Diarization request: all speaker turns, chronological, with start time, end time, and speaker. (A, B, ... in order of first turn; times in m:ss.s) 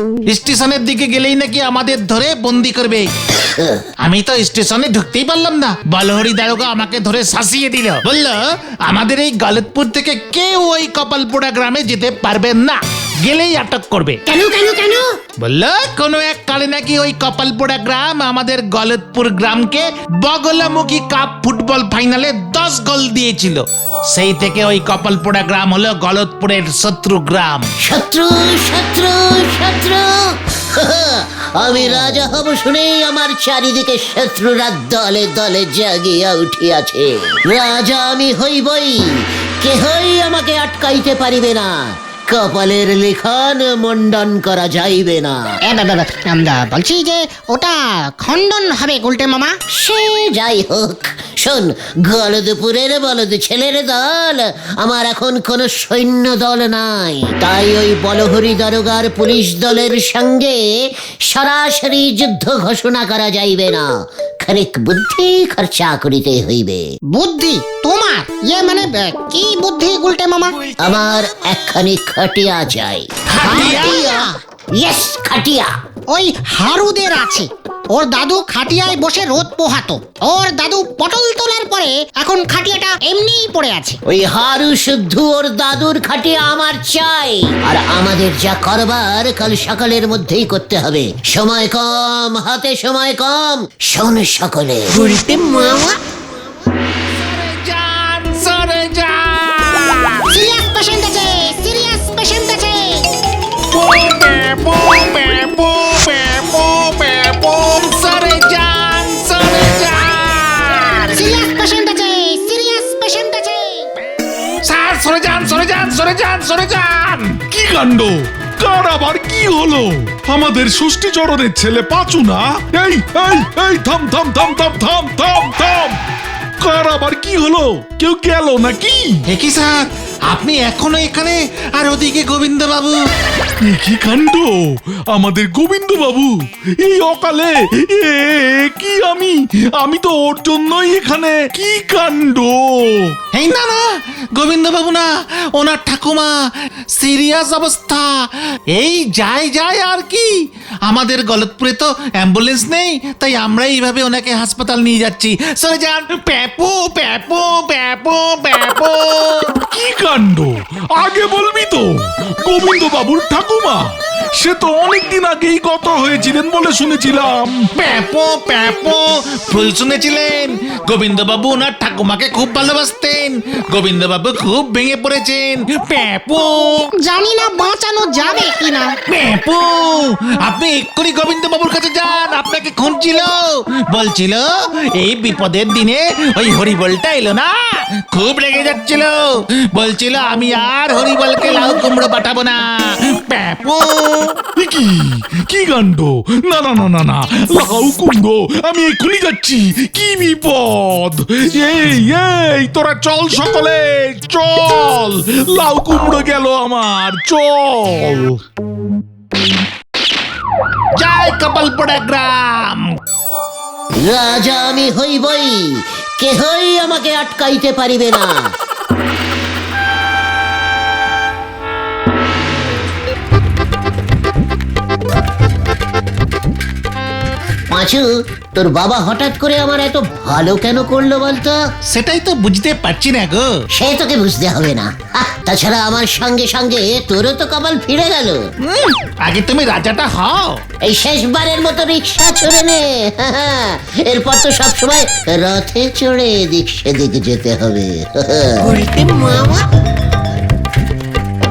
0:00.3-0:03.1 A
0:03.4-0:03.8 B
0:04.0-0:14.2 A
0:14.3-0:15.1 B
0:15.4-0:27.7 A
0:27.8-0:45.4 B
0:45.6-0:49.6 C
0:49.8-1:00.6 B
1:01.3-1:06.8 B
1:07.1-1:10.7 C
1:10.8-1:13.1 B
1:13.3-1:14.1 A
1:13.4-1:14.3 C
1:13.7-1:14.2 B
1:14.8-1:15.7 B
1:16.1-1:24.0 C
1:24.1-1:35.0 B
1:35.1-1:35.8 C
1:35.2-1:35.8 A
1:37.1-1:40.2 A
1:40.3-1:43.0 C
1:43.7-1:51.3 A
1:51.1-1:53.9 C
1:54.6-1:57.4 A
1:57.5-2:06.0 D
2:06.6-2:09.1 D
2:09.3-2:13.0 A
2:13.7-2:14.5 D
2:15.1-2:16.3 D
2:16.8-2:22.7 D
2:23.3-2:23.8 A
2:24.4-2:26.3 A
2:27.0-2:28.1 A
2:28.7-2:30.3 A
2:30.9-2:39.5 A
2:39.7-2:43.8 D
2:44.4-2:47.6 D
2:47.8-2:56.9 A
2:57.0-2:59.0 C
2:59.1-3:14.4 A
3:14.6-3:28.3 D
3:31.0-3:32.8 A
3:34.0-3:38.5 B
3:47.7-3:51.6 B
3:51.9-3:53.5 A
3:53.8-3:58.4 B
3:58.6-4:00.6 A
4:00.8-4:08.8 B